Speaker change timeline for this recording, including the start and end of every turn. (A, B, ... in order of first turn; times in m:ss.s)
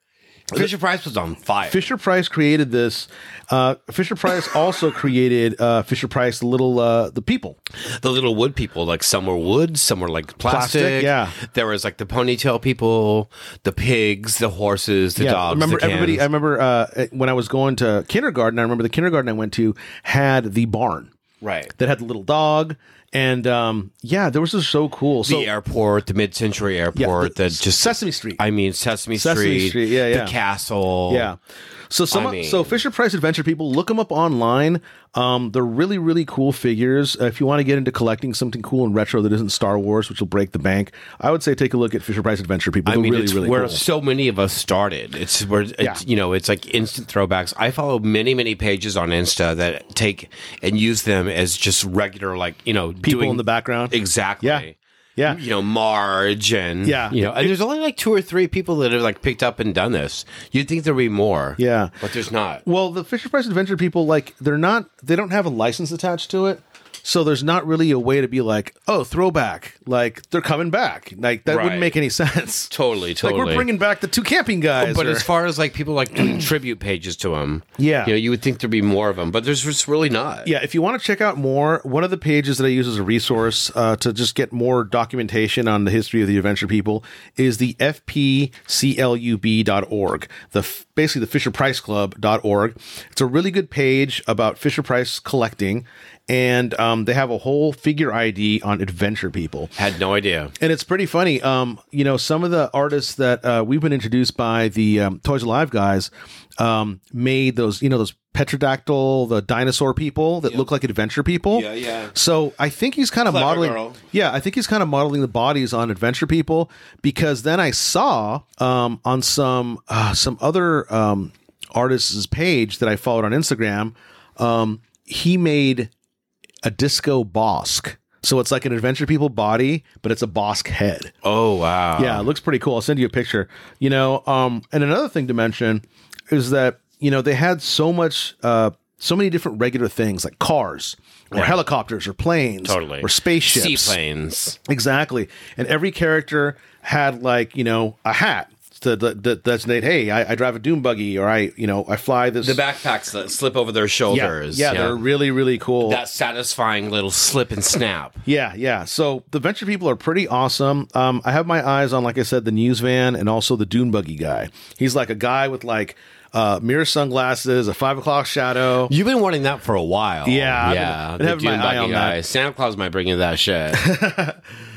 0:00.5-0:01.8 A
0:01.7-0:07.6 B
0:07.8-0:16.2 A
0:10.4-0:11.4 B
0:15.2-0:21.1 B
0:21.4-0:21.7 A
0:21.8-0:25.5 B
0:25.2-0:31.3 A
0:26.9-0:28.4 B
0:29.1-0:30.4 B
0:31.1-0:31.4 B
0:31.9-0:43.8 B
0:32.1-0:32.7 A
0:42.9-0:54.8 A
0:53.0-0:55.4 B
0:55.3-1:02.6 A
0:56.8-0:57.6 B
1:01.6-1:01.9 B
1:02.6-1:15.3 B
1:11.5-1:12.0 A
1:12.7-1:13.7 A
1:14.8-1:20.5 A
1:17.8-1:18.2 B
1:20.4-1:39.8 B
1:39.8-1:40.5 A
1:40.6-2:05.9 B
1:51.5-1:52.1 A
1:53.3-1:54.0 A
2:06.6-2:11.1 B
2:11.2-2:12.3 A
2:12.0-2:24.0 B
2:21.3-2:21.6 A
2:22.6-2:24.6 A
2:24.7-2:32.6 B
2:32.4-2:35.0 A
2:34.1-2:36.0 B
2:35.8-2:38.2 A
2:38.3-2:48.9 B
2:48.9-2:53.8 A
2:50.2-2:52.2 B
2:53.7-2:54.4 B